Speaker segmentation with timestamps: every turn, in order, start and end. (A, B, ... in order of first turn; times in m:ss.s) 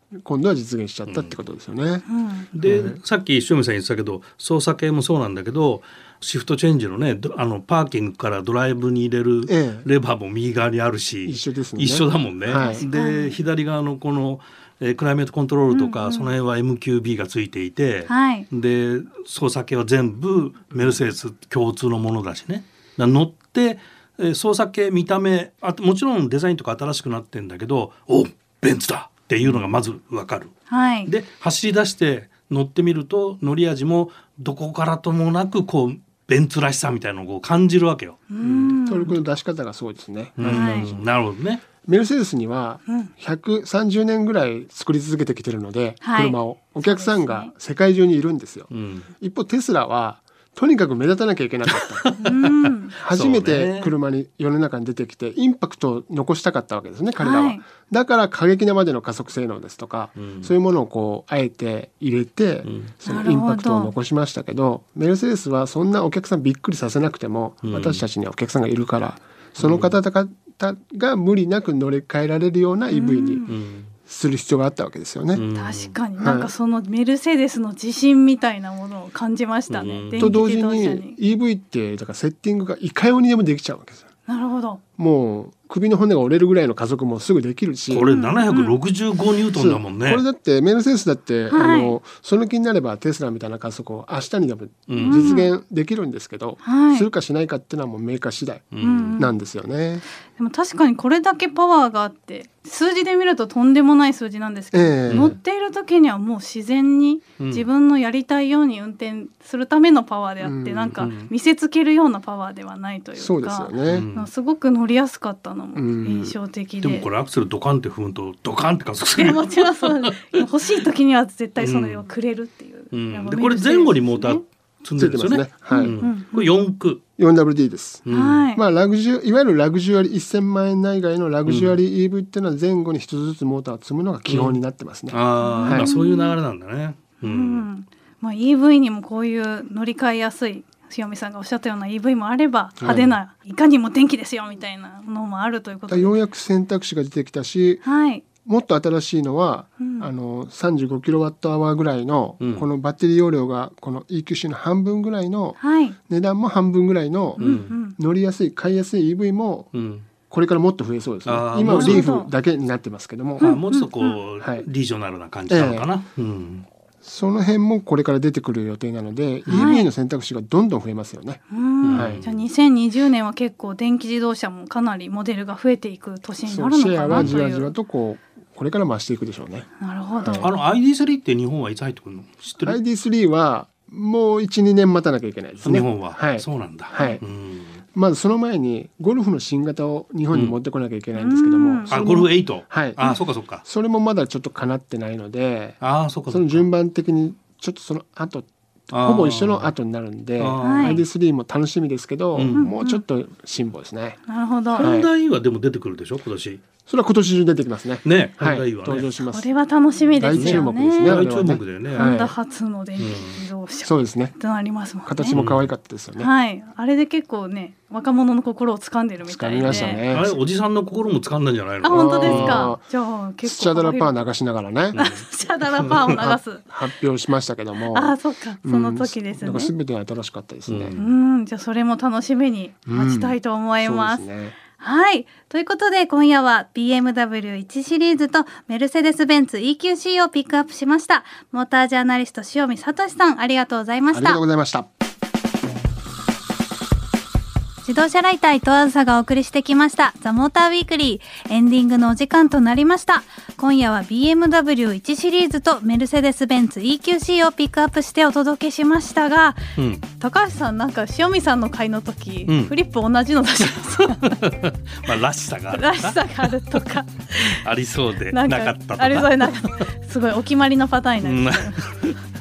0:00.2-0:02.0 A
0:01.1-0:01.4 B
0:02.1-0:02.5 C
0:02.5-0:30.5 B
0:02.6-0:03.0 A
0:09.5-0:09.9 A
0:11.2-0:12.8 A
0:12.7-0:13.4 C
0:15.7-0:16.3 C
0:18.1-0:18.5 C
0:30.7-0:31.1 C
0:31.1-0:38.2 B
0:38.3-0:39.2 C
0:38.4-0:41.1 A
0:40.4-0:41.6 B
0:40.5-0:40.9 C
0:41.8-0:52.1 A
0:46.0-0:47.5 C
0:48.7-0:49.1 B
0:51.7-0:53.9 B
0:52.2-0:53.0 C
0:52.9-1:13.5 A
0:57.2-0:57.6 C
1:00.2-1:00.5 B
1:02.6-1:02.9 B
1:03.1-1:03.9 C
1:07.6-1:08.0 B
1:09.6-1:09.9 B
1:12.9-1:13.5 C
1:13.5-1:13.9 B
1:14.1-1:15.4 A
1:15.3-1:16.0 B
1:15.6-1:21.2 C
1:16.2-1:16.5 A
1:19.7-1:20.4 B
1:20.2-1:24.1 A
1:24.3-1:24.8 C
1:25.0-1:28.1 A
1:27.9-1:30.2 B
1:28.0-1:28.8 C
1:29.6-1:40.0 A
1:31.5-1:32.0 C
1:34.9-1:35.4 B
1:35.0-1:35.5 C
1:36.6-1:37.1 C
1:38.7-1:39.2 B
1:38.8-1:39.3 C
1:40.4-1:57.1 C
1:44.7-1:45.4 A
1:45.1-1:45.4 B
1:47.4-1:47.7 B
1:50.4-1:51.1 A
1:51.0-1:51.3 B
1:53.2-1:54.1 A
1:53.9-1:54.3 B
1:55.8-1:56.4 A
1:56.8-2:00.5 B
1:59.2-2:04.4 C
2:01.6-2:02.0 B
2:02.9-2:07.0 B
2:05.0-2:05.9 A
2:05.7-2:06.5 C
2:07.2-2:15.9 A
2:08.1-2:08.4 B
2:08.1-2:08.6 C
2:11.5-2:11.8 B
2:14.3-2:14.6 B
2:15.1-2:17.7 B
2:15.4-2:16.4 C
2:17.2-2:26.1 C
2:22.8-2:23.2 A
2:25.9-2:27.8 A
2:27.8-2:28.2 C
2:28.4-2:39.7 A
2:29.8-2:30.1 C
2:32.4-2:32.7 B
2:35.6-2:36.0 C
2:37.4-2:37.8 B
2:37.4-2:38.0 C
2:39.7-2:40.1 B
2:40.3-2:43.6 A
2:41.3-2:42.1 B
2:41.6-2:42.3 C
2:43.4-2:44.2 C
2:43.4-2:46.7 B
2:44.4-2:44.7 A
2:45.5-2:45.9 A
2:47.0-2:52.2 A
2:49.5-2:49.9 C
2:51.5-2:57.7 C
2:51.8-2:52.4 B
2:56.5-3:00.5 A
2:57.1-2:57.4 B
2:59.8-3:00.5 C
3:00.3-3:02.8 B
3:02.6-3:07.2 A
3:05.6-3:07.8 B
3:07.0-3:07.2 C
3:07.9-3:13.0 A
3:11.2-3:12.0 C
3:11.9-3:13.6 B
3:13.6-3:15.8 A
3:15.8-3:16.6 B
3:16.3-3:24.2 A
3:18.9-3:19.7 B
3:20.4-3:21.0 B
3:20.6-3:21.0 C
3:22.3-3:22.7 B
3:22.5-3:23.0 C
3:24.3-3:24.9 C
3:24.8-3:26.6 B
3:24.8-3:25.1 A
3:26.9-3:29.5 A
3:28.0-3:29.1 B
3:29.3-3:31.2 C
3:30.1-3:32.4 A
3:30.4-3:32.2 B
3:32.0-3:35.4 C
3:33.0-3:33.4 B
3:33.8-3:34.4 A
3:35.0-3:36.3 A
3:35.3-3:35.7 B
3:36.2-3:40.1 C
3:39.2-3:40.3 A
3:39.7-3:42.8 B
3:41.8-3:44.1 C
3:41.9-3:42.8 A
3:43.4-3:45.1 A
3:44.9-3:46.6 C
3:45.0-3:45.2 B
3:45.8-3:46.2 B
3:45.9-3:51.0 A
3:47.9-3:49.7 C
3:50.7-3:51.1 B
3:51.0-4:04.4 C
3:52.9-3:54.6 A
4:04.1-4:04.9 A
4:07.8-4:19.6 C
4:19.8-4:20.1 B
4:20.2-4:24.4 C
4:22.5-4:22.7 B
4:24.0-4:26.9 B
4:25.7-4:27.6 C
4:27.4-4:29.8 B
4:28.3-4:31.8 C
4:31.2-4:32.2 B